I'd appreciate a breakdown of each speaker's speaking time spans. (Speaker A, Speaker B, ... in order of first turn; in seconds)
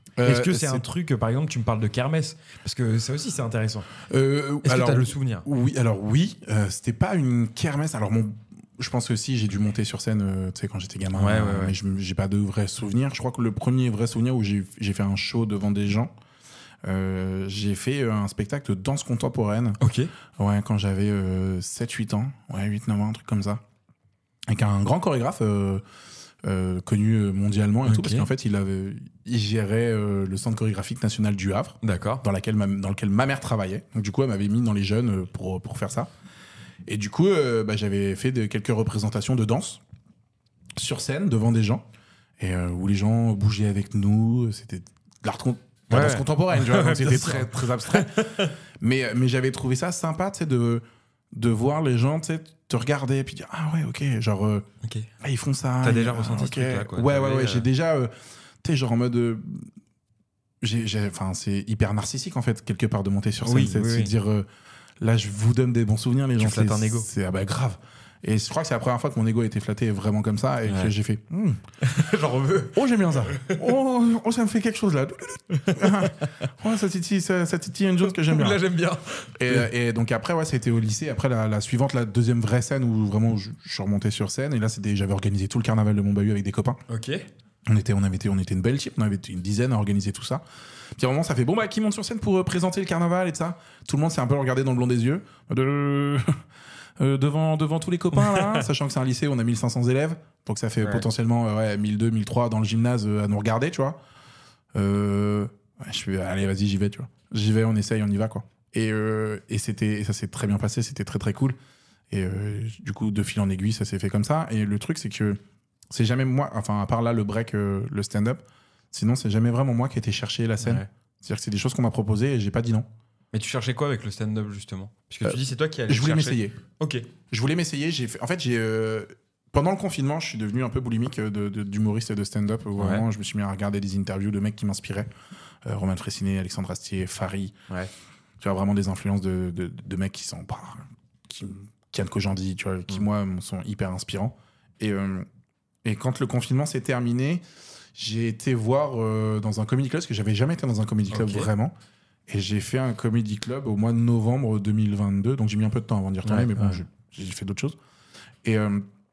Speaker A: 0.2-0.8, 4.0-16.1, 16.8-19.8, 20.4-23.6, 24.5-25.8, 26.4-36.1, 36.9-39.8, 40.8-41.9, 42.4-54.6, 55.2-58.1, 58.6-59.7, 60.6-64.5, 65.0-71.6, 72.7-78.6, 79.4-86.8, 87.7-90.4, 91.0-96.4, 97.0-104.0, 104.7-111.6, 112.1-122.8, 125.2-126.6, 127.3-135.1, 135.6-137.5, 138.4-145.3, 145.8-147.4, 147.9-151.7, 152.3-157.8, 158.4-158.8
Speaker B: 0.2-3.9, 4.6-5.5, 11.1-11.8, 19.8-20.1, 27.8-28.3, 31.8-32.2, 45.9-48.5, 54.8-55.1, 55.8-57.7, 63.4-64.1, 66.4-67.1, 70.7-70.9, 71.8-73.6, 75.5-76.1, 78.1-79.7, 86.9-87.2, 98.2-98.6, 120.6-120.9, 123.3-127.1, 132.8-133.0, 151.1-151.5, 156.2-156.8